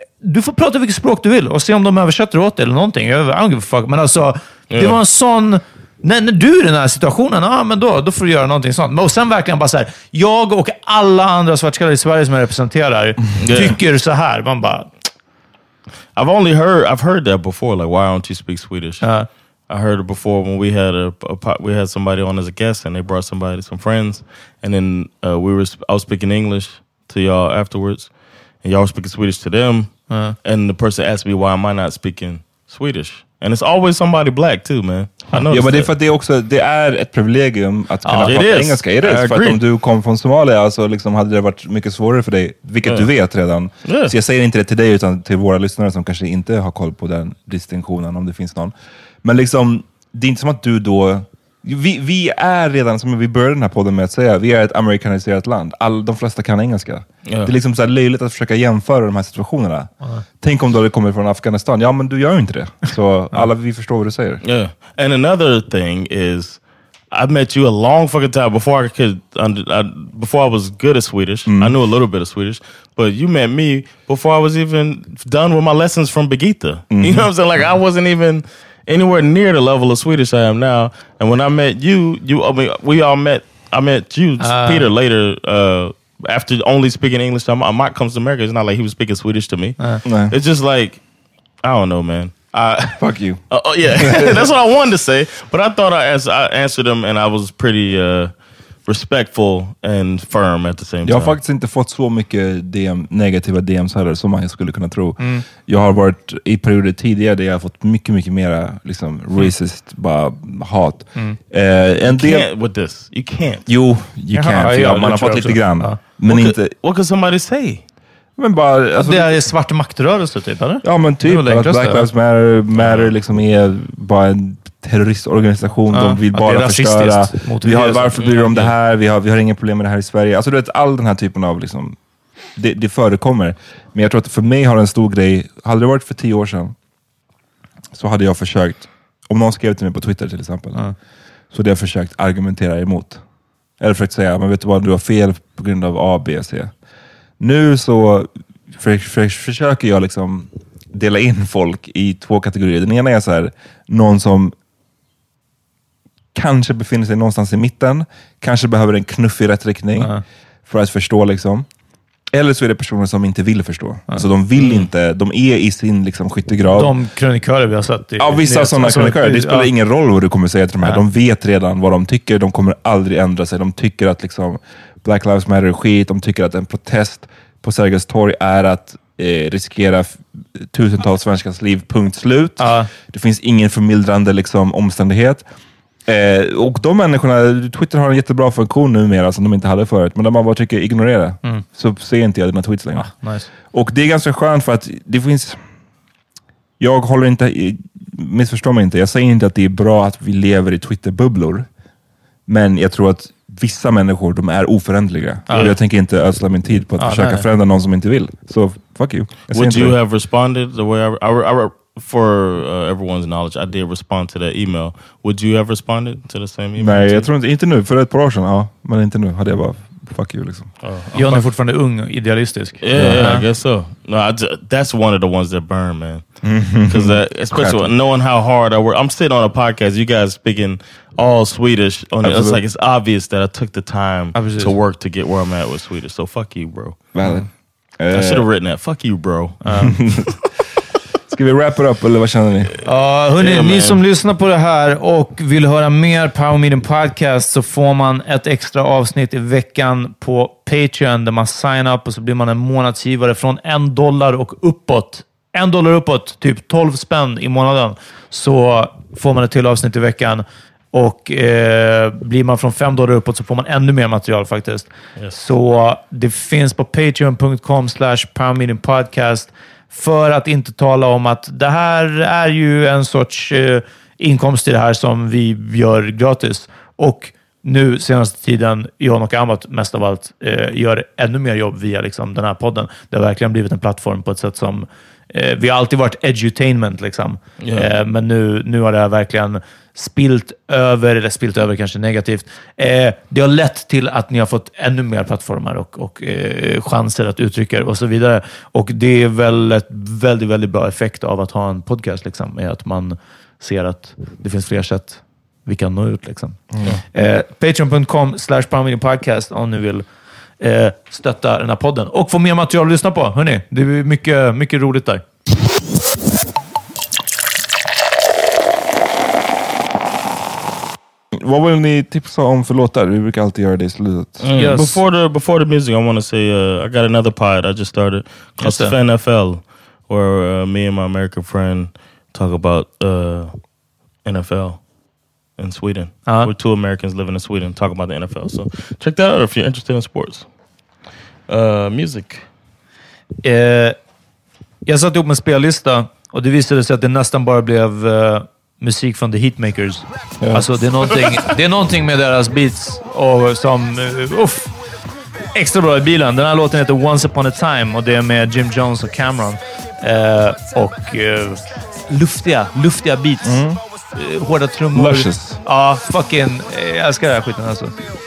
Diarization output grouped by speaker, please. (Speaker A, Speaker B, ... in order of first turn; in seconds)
Speaker A: 0.2-14.9, 19.0-19.3, 30.1-30.4, 38.0-38.4, 84.4-84.9, 105.2-105.5, 114.3-116.0, 119.0-122.1, 125.9-128.3, 160.0-160.2, 166.7-169.7, 182.6-182.9, 193.0-193.5, 205.5-205.7, 207.0-207.5, 221.1-223.4, 234.3-234.7, 239.6-239.9, 242.8-306.6, 307.1-310.1, 310.6-315.2, 324.5-325.0, 328.6-328.9, 336.3-336.5, 343.4-344.0, 344.9-354.7, 355.5-363.6, 364.1-367.9
Speaker B: 4.7-5.0, 13.4-13.8, 16.1-19.1, 19.7-35.9, 38.2-39.6, 43.9-44.1, 57.3-57.5, 64.4-66.6, 67.1-91.0, 91.6-98.3, 98.8-101.4, 112.1-113.7, 116.3-117.8, 128.2-128.7, 209.5-217.3, 220.8-221.4, 222.8-226.3, 226.8-237.0, 238.1-239.6, 243.4-244.0, 287.6-287.9, 324.4-333.5, 334.2-334.8, 335.6-340.5, 341.5-342.5
Speaker C: 35.5-64.4, 71.5-71.7, 76.9-77.3, 90.0-90.3, 93.0-94.5, 101.0-112.5, 113.7-116.7, 118.4-119.4, 120.8-132.0, 132.6-136.8, 137.9-140.9, 141.5-143.2, 143.8-146.7, 147.4-154.6, 156.3-160.1, 160.7-161.7, 162.3-166.9, 168.2-185.4, 186.1-195.6, 196.8-201.7, 202.5-210.0, 216.8-220.8, 222.9-223.4, 226.4-227.9, 232.2-232.6, 237.2-237.5, 238.0-238.5, 239.7-240.4, 241.3-242.7, 306.7-307.0, 321.3-324.8, 350.4-351.4, 363.4-363.8, 364.9-365.6